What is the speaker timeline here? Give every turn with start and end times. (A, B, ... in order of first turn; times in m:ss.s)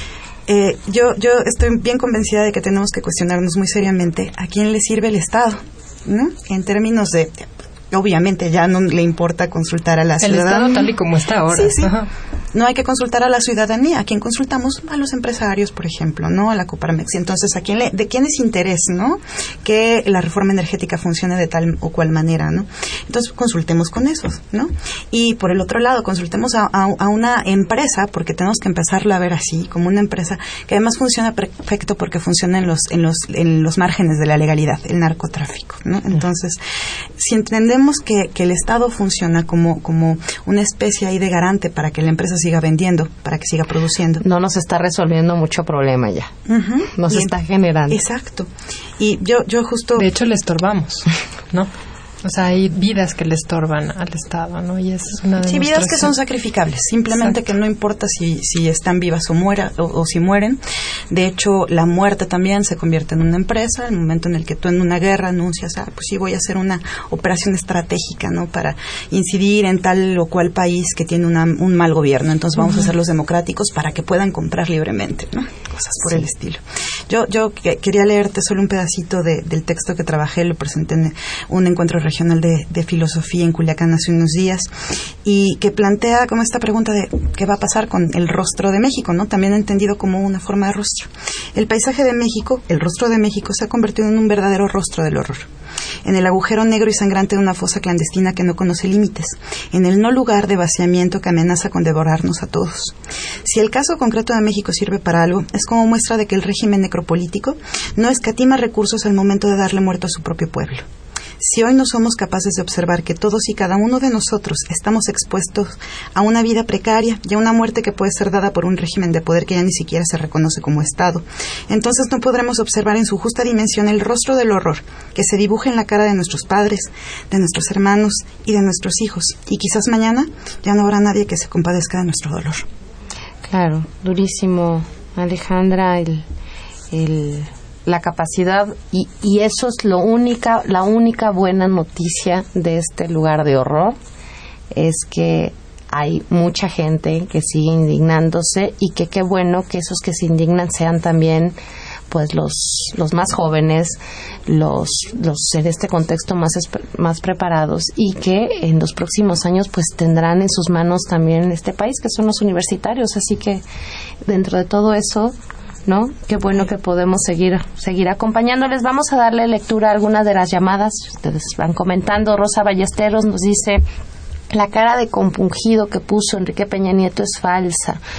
0:00.5-0:10.9 A
0:10.2-0:12.1 B
0:11.5-0:11.9 A
0:12.5-0:36.6 A
0:37.2-0:44.2 A
0:44.2-0:46.3 C
0:46.5-0:47.3 A
0:47.0-0:48.0 C
0:47.9-0:50.1 A
0:50.0-0:51.7 B
0:52.2-0:56.1 B
0:55.4-1:24.7 A
1:25.2-1:35.5 A
1:36.0-1:50.9 A
1:51.4-2:12.7 A
2:13.5-2:16.2 C
2:16.9-2:24.0 C
2:24.7-2:31.6 C
2:32.1-2:43.6 C
2:44.3-2:45.4 C
2:45.9-2:53.8 C
2:54.5-2:58.0 C